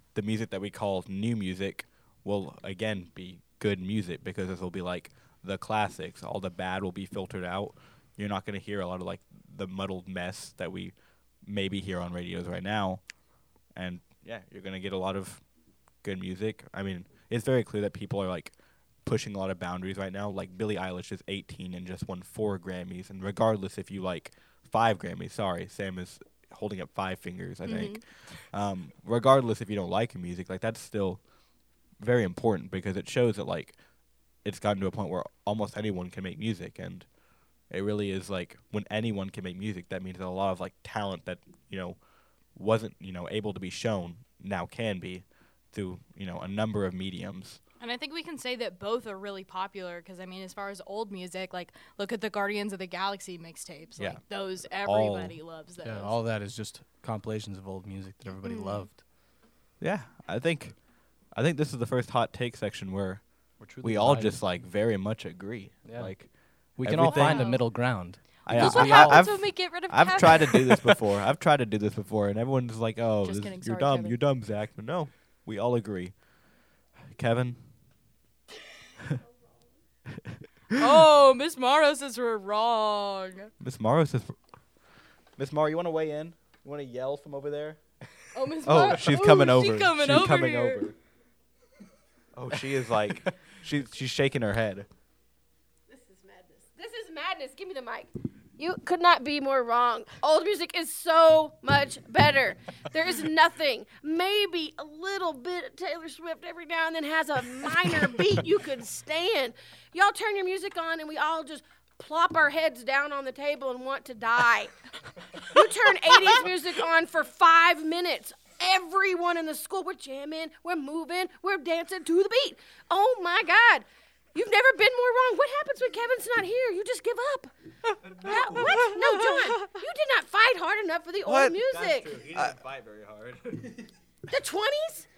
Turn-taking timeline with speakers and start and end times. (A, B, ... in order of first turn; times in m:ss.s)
0:00.1-0:13.0 A
0:13.7-0:15.4 A
0:16.0-0:31.2 A
0:27.6-0:28.0 B
0:32.0-0:33.8 A
0:34.4-0:37.1 A
0:37.7-0:42.0 A
0:42.5-0:47.6 A
0:47.8-0:56.2 B
0:54.0-0:55.4 A
0:55.8-0:59.0 C
0:58.4-0:58.9 B
0:59.8-1:07.7 A
1:03.6-1:04.4 C
1:05.8-1:06.2 C
1:06.8-1:09.3 C
1:07.0-1:07.6 B
1:08.4-1:16.2 A
1:08.5-1:11.0 B
1:13.2-1:14.2 B
1:17.1-1:17.6 A
1:20.8-1:23.5 B
1:23.6-1:24.4 A
1:25.4-1:27.8 A
1:28.3-1:30.8 B
1:28.6-1:31.0 A
1:32.4-1:34.9 A
1:35.9-1:54.7 D
1:55.4-2:07.5 D
2:08.2-2:12.3 D
2:08.3-2:08.8 A
2:09.0-2:09.7 B
2:11.3-2:11.6 C
2:11.4-2:13.9 A
2:14.3-2:15.1 D